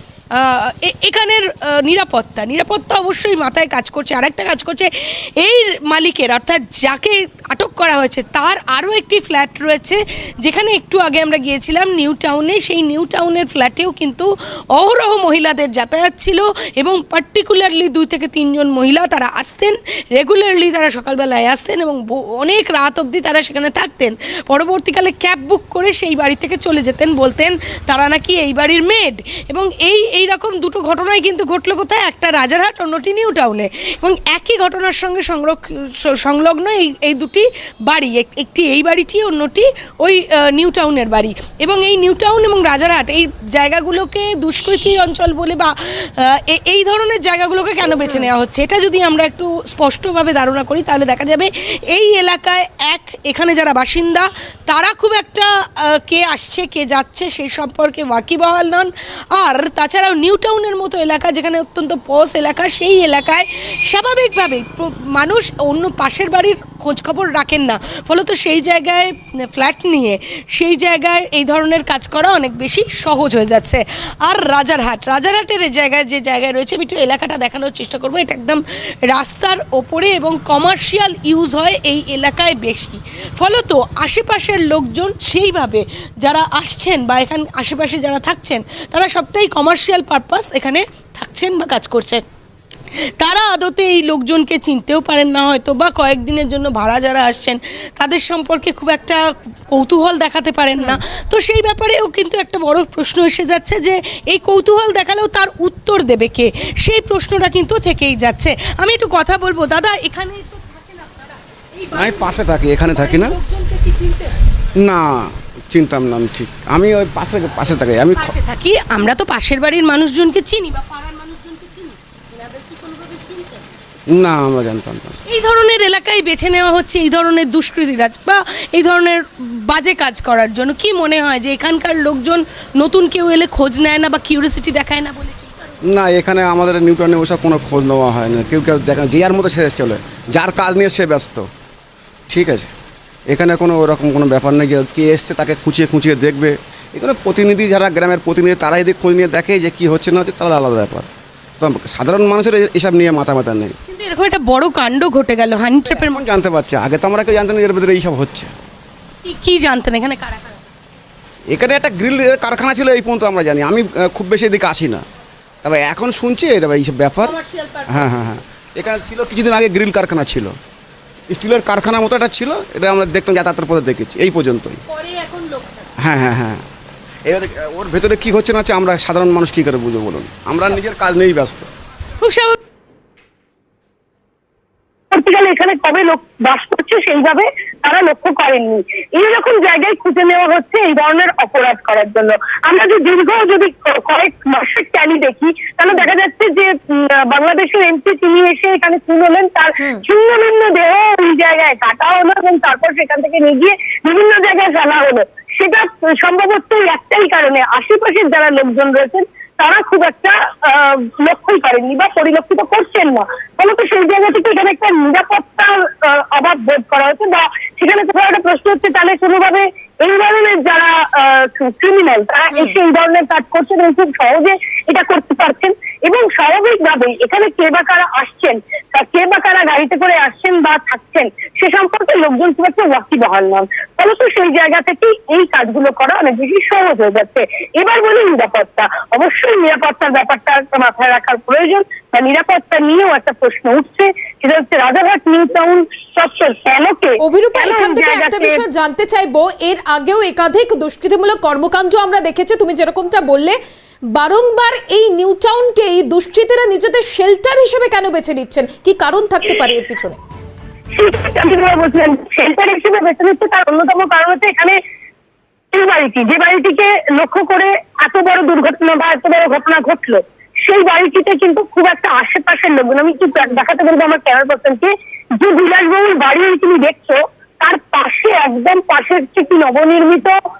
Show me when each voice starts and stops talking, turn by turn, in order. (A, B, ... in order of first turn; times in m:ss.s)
0:00.4-1:32.2 A
0:48.0-0:48.3 B
1:33.2-1:39.2 A
1:39.7-1:54.3 A
1:51.9-1:53.4 C
1:54.8-1:58.4 C
1:58.1-2:03.7 A
2:04.1-2:05.2 C
2:05.3-2:15.8 A
2:15.8-2:21.5 C
2:22.3-2:22.7 C
2:23.3-2:31.1 C
2:31.6-2:33.8 C
2:33.9-2:36.3 A
2:35.9-2:38.5 C
2:39.2-2:40.6 A
2:41.5-2:45.0 C
2:45.6-2:50.6 C
2:47.2-2:48.1 A
2:51.3-2:54.8 C
2:54.9-2:55.9 A
2:56.0-2:56.6 C
2:57.2-3:01.7 C
3:02.2-3:02.6 A
3:05.1-4:08.6 D
4:07.2-4:13.6 B
4:14.1-4:20.2 B
4:20.9-4:24.8 D
4:25.7-4:40.4 D